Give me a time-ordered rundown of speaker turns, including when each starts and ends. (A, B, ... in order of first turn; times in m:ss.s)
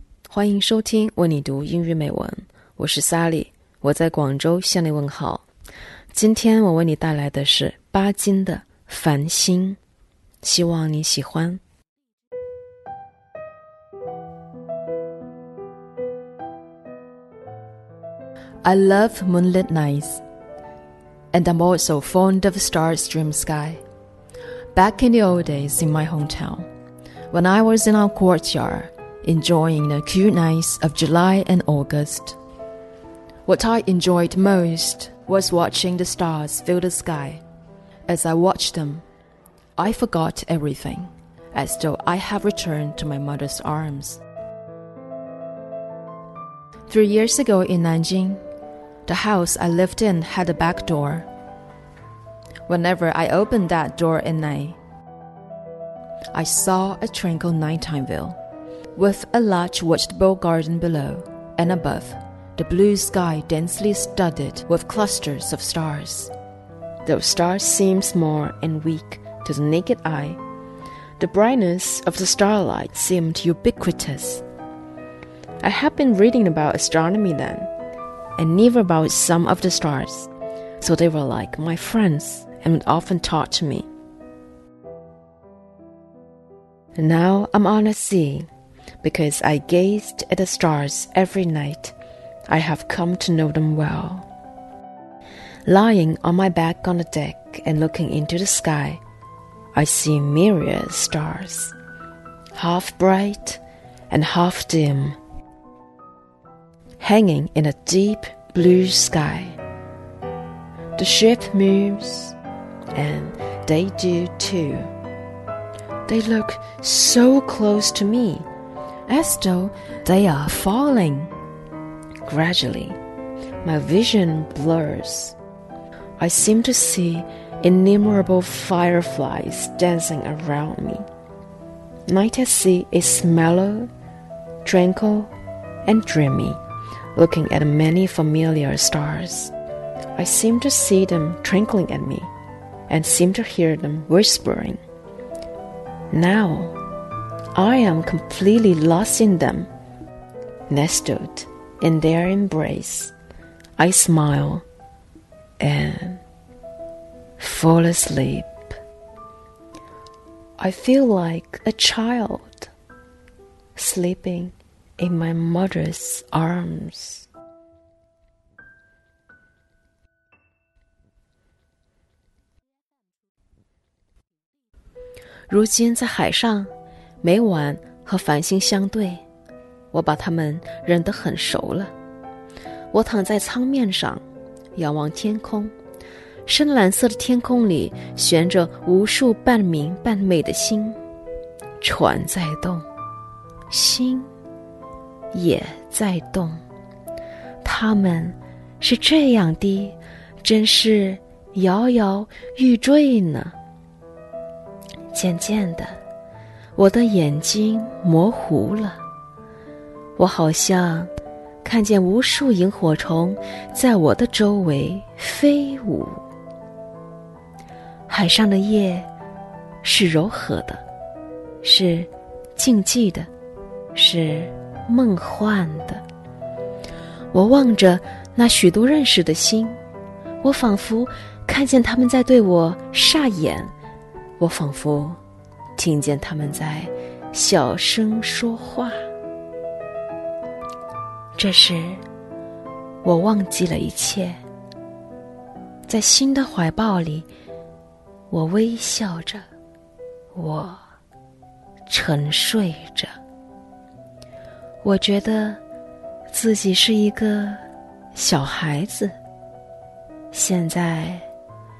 0:00.3-0:05.4 A
0:06.1-0:09.8 A
0:10.4-0:11.6 A
0:18.6-0:20.2 A
0:21.3-0:23.8 A
0:24.7-0:26.7 A
0:27.3-0:32.4 A
0:33.4-0:37.4 A
0:38.1-0:39.0 A
0:39.8-0:44.2 A
0:46.9-0:48.4 A
0:49.0-0:51.3 A
0:52.7-0:54.8 A
0:56.3-0:58.4 A
0:58.9-1:06.3 A
1:07.0-1:10.4 A
1:11.2-1:14.4 A
1:15.6-1:17.7 A
1:18.4-1:23.9 A
1:27.0-1:28.5 A
1:29.0-1:31.9 A
1:32.5-1:34.3 A
1:35.6-1:39.0 A
1:39.7-1:41.8 A
1:42.5-1:45.2 A
1:47.0-1:49.6 A
1:51.0-1:52.4 A
1:52.9-1:54.9 A
1:56.0-1:58.5 A
1:59.1-2:01.3 A
2:02.2-2:03.0 A
2:03.6-2:05.4 A
2:06.2-2:11.0 A
2:12.1-2:13.9 A
2:14.6-2:15.3 A
2:15.8-2:16.6 A
2:17.1-2:19.5 A
2:20.2-2:22.3 A
2:22.9-2:24.8 A
2:26.1-2:26.8 A
2:27.5-2:29.7 A
2:30.7-2:33.1 A
2:33.8-2:34.6 A
2:35.6-2:36.2 A
2:37.4-2:38.6 A
2:40.6-2:42.7 A
2:43.8-2:47.3 A
2:55.5-2:59.2 A
2:59.9-3:01.9 A
3:02.9-3:04.2 A
3:04.7-3:05.7 A
3:06.4-3:11.0 A
3:11.8-3:12.9 A
3:13.7-3:14.3 A
3:15.3-3:16.6 A
3:17.6-3:23.6 A
3:25.1-3:26.0 A
3:26.7-3:29.0 A
3:30.2-3:31.1 A
3:31.6-3:36.2 A
3:38.1-3:39.1 A
3:39.8-3:40.8 A
3:41.6-3:43.3 A
3:43.9-3:46.0 A
3:47.3-3:49.8 A
3:50.4-3:53.7 A
3:54.4-3:55.2 A
3:55.8-3:59.0 A
4:01.4-4:02.0 A
4:03.0-4:04.4 A
4:05.9-4:07.3 A
4:08.3-4:09.4 A
4:10.3-4:10.8 A
4:11.9-4:13.1 A
4:14.8-4:15.6 A
4:16.3-4:17.6 A
4:18.1-4:19.2 A
4:20.3-4:21.3 A